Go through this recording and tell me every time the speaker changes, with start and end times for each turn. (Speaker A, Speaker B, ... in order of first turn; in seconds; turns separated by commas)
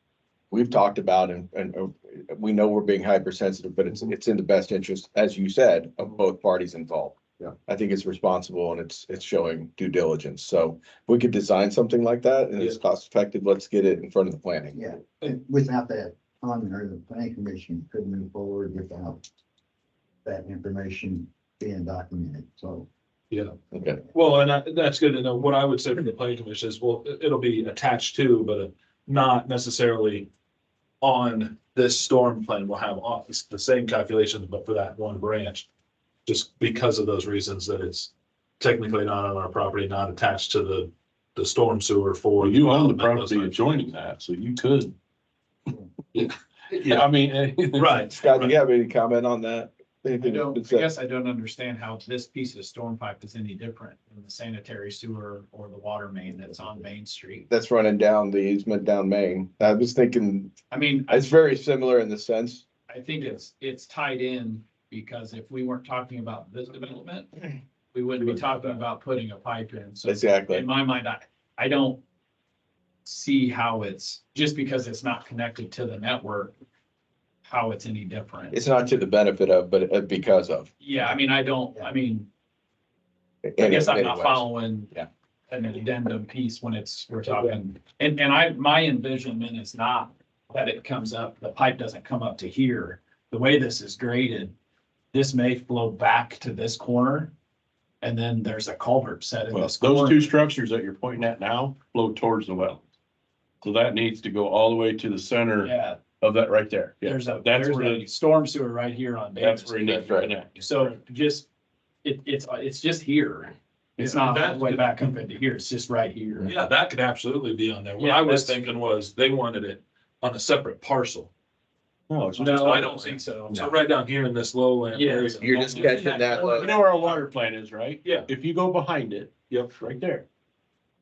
Speaker A: 0.5-14.8, Speaker B: 14.7-19.2, Speaker B: 20.2-22.9, Speaker A: 23.7-24.0, Speaker C: 24.1-30.3, Speaker C: 31.0-35.7, Speaker C: 36.3-43.6, Speaker D: 42.4-45.0, Speaker C: 46.1-47.0, Speaker D: 46.7-48.0, Speaker C: 47.8-48.5, Speaker A: 48.1-50.9, Speaker E: 50.2-57.5, Speaker A: 57.5-60.6, Speaker E: 60.7-61.4, Speaker A: 61.1-62.7, Speaker E: 62.9-72.0, Speaker C: 68.2-68.5, Speaker A: 70.0-70.7, Speaker E: 73.0-76.5, Speaker E: 77.4-78.6, Speaker A: 78.5-80.7, Speaker E: 80.8-82.3, Speaker A: 83.5-85.1, Speaker E: 83.6-84.9, Speaker E: 85.5-94.5, Speaker E: 95.1-97.3, Speaker E: 98.0-100.3, Speaker D: 99.5-102.8, Speaker D: 103.6-108.1, Speaker E: 105.6-106.0, Speaker E: 107.0-111.5, Speaker D: 109.4-110.5, Speaker A: 110.0-110.3, Speaker C: 110.6-110.9, Speaker E: 112.0-116.5, Speaker C: 114.0-114.8, Speaker C: 116.5-121.3, Speaker E: 118.0-118.6, Speaker D: 122.1-122.9, Speaker E: 122.3-123.7, Speaker C: 122.4-126.2, Speaker E: 124.9-127.2, Speaker A: 125.4-126.8, Speaker D: 126.3-130.2, Speaker C: 128.0-128.3, Speaker C: 129.5-129.7